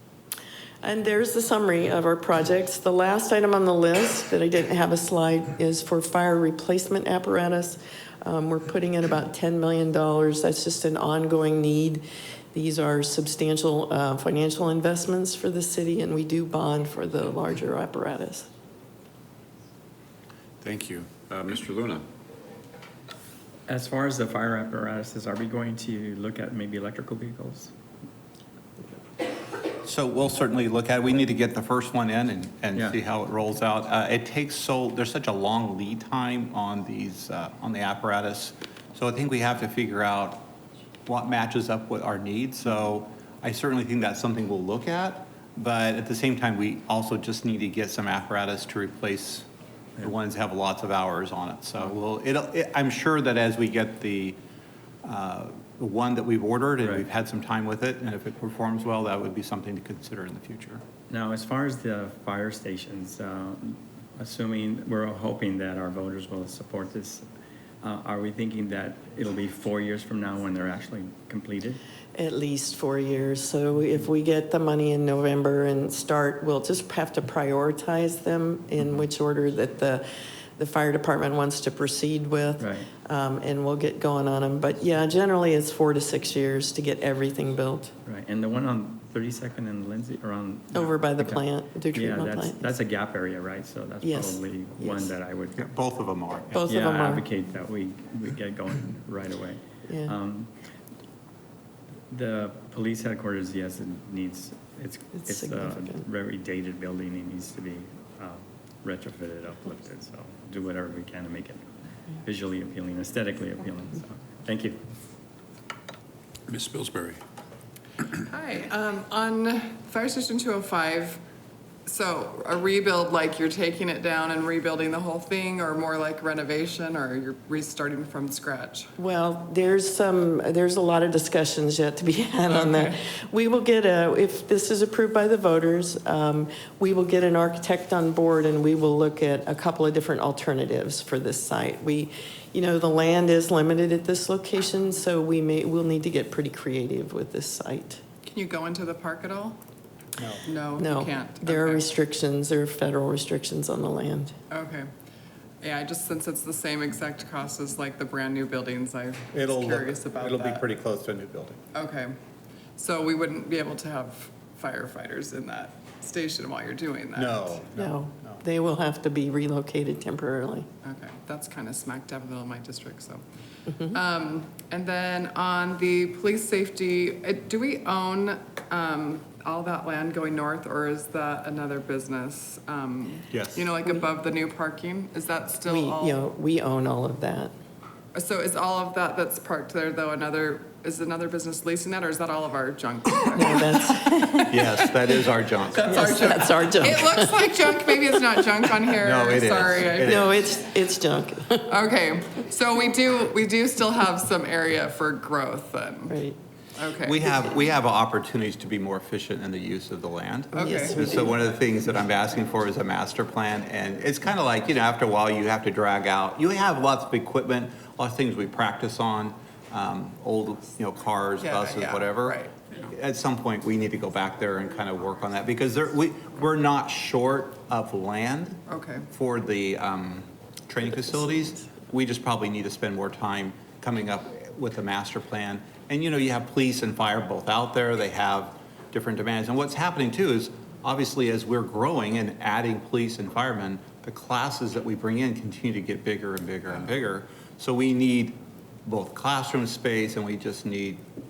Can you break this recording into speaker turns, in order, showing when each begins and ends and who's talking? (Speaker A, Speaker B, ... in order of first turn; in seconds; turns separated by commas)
Speaker A: 0.8-18.5, Speaker B: 20.6-22.1, Speaker C: 23.7-27.7, Speaker D: 29.8-40.5, Speaker D: 41.1-49.5, Speaker D: 50.0-54.4, Speaker D: 55.0-60.8, Speaker C: 61.1-67.3, Speaker C: 67.8-71.8, Speaker A: 72.2-80.0, Speaker A: 80.6-87.9, Speaker C: 82.6-82.9, Speaker C: 88.0-95.7, Speaker A: 90.7-92.7, Speaker A: 94.0-95.1, Speaker D: 95.6-96.7, Speaker A: 96.5-97.3, Speaker C: 96.7-100.5, Speaker A: 99.9-100.2, Speaker C: 102.1-111.7, Speaker A: 105.2-106.0, Speaker C: 112.2-114.8, Speaker B: 116.5-117.2, Speaker E: 118.2-121.2, Speaker E: 121.9-128.9, Speaker A: 129.0-148.0, Speaker E: 132.5-133.0, Speaker E: 148.2-149.6, Speaker D: 150.2-150.4, Speaker E: 150.5-151.8, Speaker A: 150.8-154.3, Speaker E: 154.5-154.9, Speaker E: 155.6-160.6, Speaker D: 159.3-161.6, Speaker E: 161.7-162.1, Speaker E: 162.8-167.6, Speaker D: 167.2-168.4, Speaker A: 167.8-170.7, Speaker E: 170.8-173.2, Speaker A: 173.7-173.9, Speaker E: 173.8-186.2, Speaker D: 183.3-183.7, Speaker A: 185.7-187.5, Speaker E: 188.2-195.2, Speaker A: 193.3-194.6, Speaker D: 194.5-195.9, Speaker E: 195.7-200.3, Speaker A: 195.9-197.8, Speaker D: 199.0-200.4, Speaker A: 200.0-201.7, Speaker E: 201.7-206.2, Speaker A: 206.1-206.4, Speaker E: 206.8-207.3, Speaker D: 207.0-228.6, Speaker E: 210.6-211.0, Speaker A: 210.6-211.3, Speaker E: 221.4-222.7, Speaker E: 228.7-229.1, Speaker D: 229.1-251.0